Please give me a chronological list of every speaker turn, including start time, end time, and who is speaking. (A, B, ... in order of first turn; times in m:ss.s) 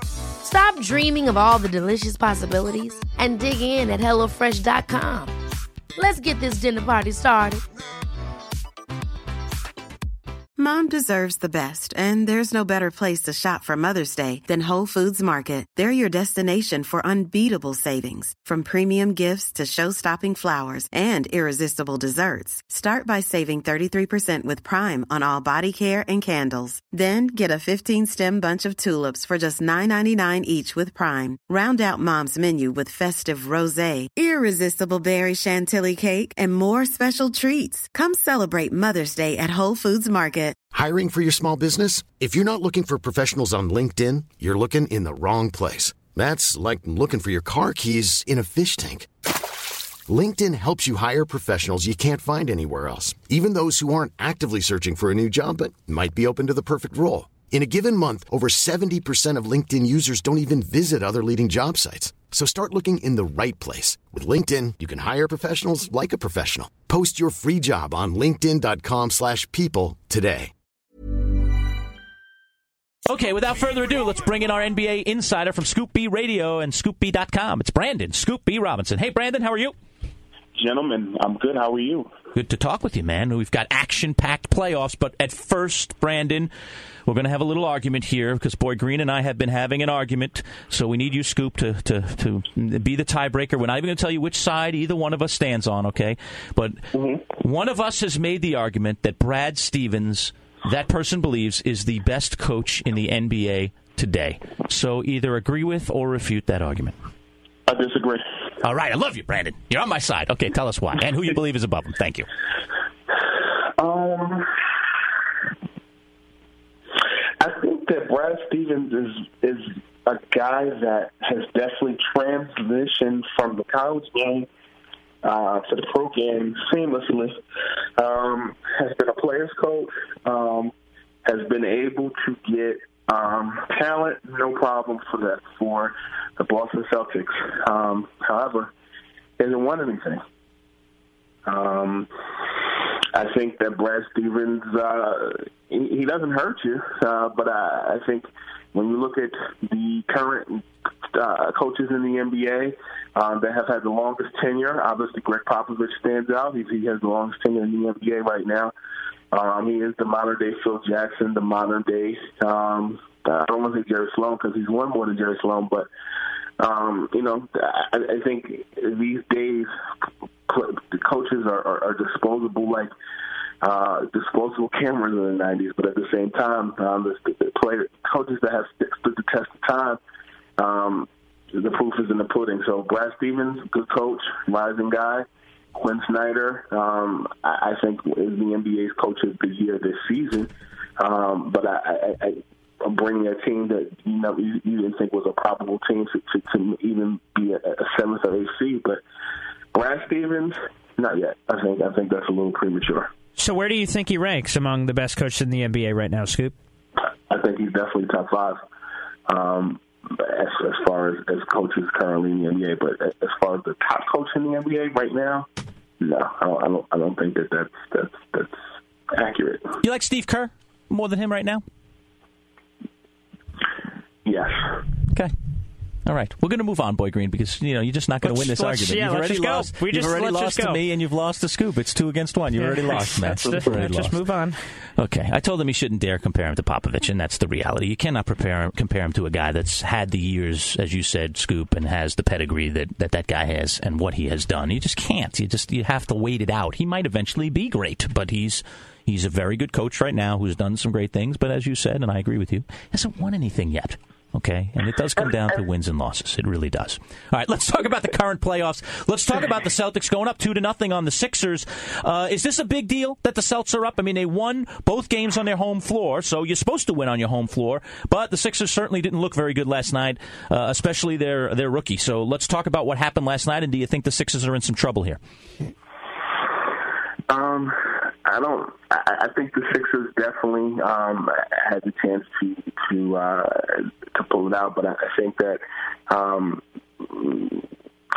0:00.4-0:05.3 A
0:06.0-0:07.6 A
0:10.6-0:40.6 B
0:40.7-0:49.1 C
0:50.1-1:10.5 C
1:13.1-1:19.7 D
1:20.5-1:22.1 E
1:22.3-1:26.5 D
1:27.0-1:36.8 D
1:36.9-1:37.2 E
1:37.4-1:47.0 D
1:47.7-1:48.2 E
1:48.6-1:52.3 D
1:53.4-1:54.5 E
1:57.4-2:04.5 E
2:05.2-2:07.4 E
2:08.0-2:10.7 E
2:11.2-2:18.7 E
2:19.4-2:20.2 E
2:21.4-2:38.7 E
2:39.3-2:45.9 E
2:46.6-2:49.7 E
2:50.5-2:52.9 E
2:53.6-3:00.0 E
3:00.6-3:19.0 E
3:19.7-3:23.1 E
3:23.4-3:26.5 F
3:27.3-3:28.6 E
3:29.3-3:35.5 E
3:36.0-3:38.6 E
3:39.1-3:39.8 E
3:39.8-3:41.6 D
3:44.2-3:44.8 E
3:46.0-3:54.2 D
3:48.2-3:50.8 F
3:52.5-3:54.6 F
3:55.0-4:35.2 D
4:37.3-4:47.7 E